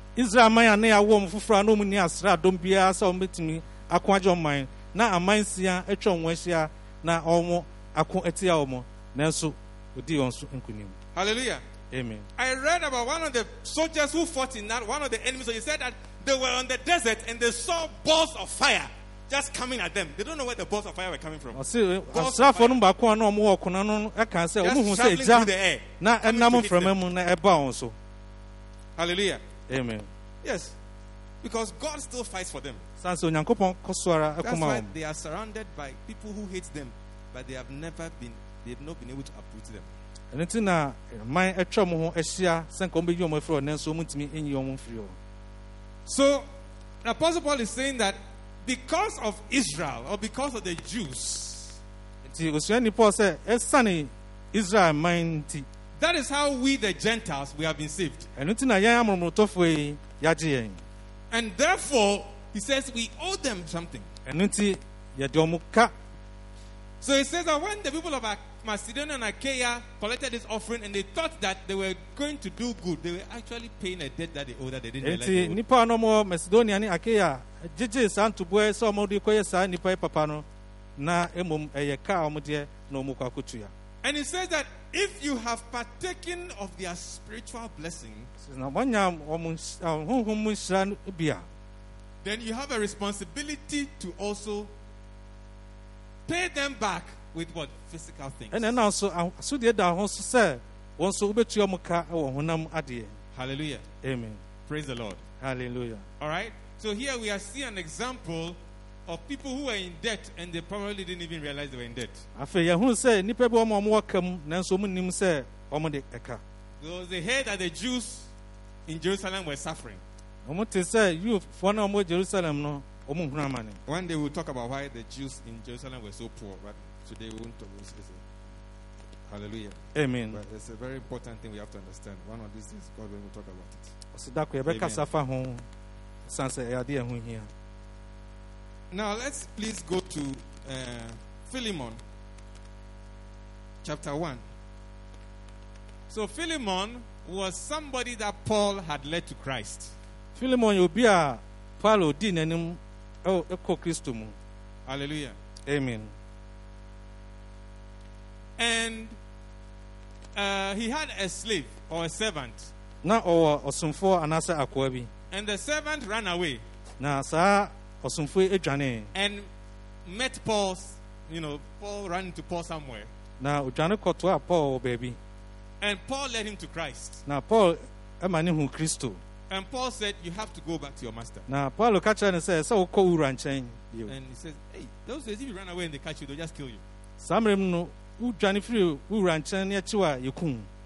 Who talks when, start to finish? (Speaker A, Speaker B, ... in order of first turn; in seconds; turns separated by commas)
Speaker A: 0.1-10.9, Speaker B: 11.1-11.6, Speaker A: 11.9-12.3, Speaker B: 12.4-22.8, Speaker A: 21.5-27.9, Speaker B: 24.6-26.9, Speaker B: 29.0-29.4, Speaker A: 29.7-30.1, Speaker B: 30.4-30.7, Speaker B: 31.4-32.8, Speaker A: 33.0-34.9, Speaker B: 34.4-39.9, Speaker A: 40.3-45.1, Speaker B: 46.0-46.5, Speaker B: 47.0-51.8, Speaker A: 52.2-55.6, Speaker B: 56.0-58.3, Speaker A: 58.4-60.8, Speaker B: 61.3-64.1, Speaker A: 64.2-65.9, Speaker B: 67.0-75.6, Speaker A: 75.0-80.4, Speaker A: 81.0-83.7, Speaker B: 84.0-88.3, Speaker A: 88.4-91.5, Speaker B: 92.2-94.7, Speaker B: 96.3-98.7, Speaker A: 98.5-103.2, Speaker B: 103.3-103.8, Speaker A: 104.0-104.4, Speaker B: 104.7-105.2, Speaker A: 105.4-106.0, Speaker B: 106.2-112.2, Speaker A: 112.3-116.4, Speaker B: 116.8-118.3, Speaker B: 118.9-120.0, Speaker A: 120.4-123.8, Speaker B: 123.8-128.2, Speaker B: 129.3-133.9, Speaker A: 129.9-130.4, Speaker A: 134.1-135.7, Speaker B: 134.7-135.0, Speaker A: 136.2-137.5, Speaker B: 138.9-142.0, Speaker B: 143.8-144.4, Speaker B: 146.1-149.9, Speaker A: 150.3-154.3, Speaker B: 154.9-155.4, Speaker A: 155.7-156.1, Speaker B: 158.6-159.2, Speaker B: 160.3-162.7, Speaker A: 163.0-165.1, Speaker B: 165.3-166.6, Speaker A: 167.0-169.1, Speaker B: 169.1-169.5, Speaker B: 170.1-173.1, Speaker A: 173.4-175.2, Speaker B: 175.8-177.2, Speaker A: 177.2-179.2, Speaker B: 179.5-181.4, Speaker A: 181.5-184.1, Speaker B: 184.1-186.8, Speaker A: 187.2-190.7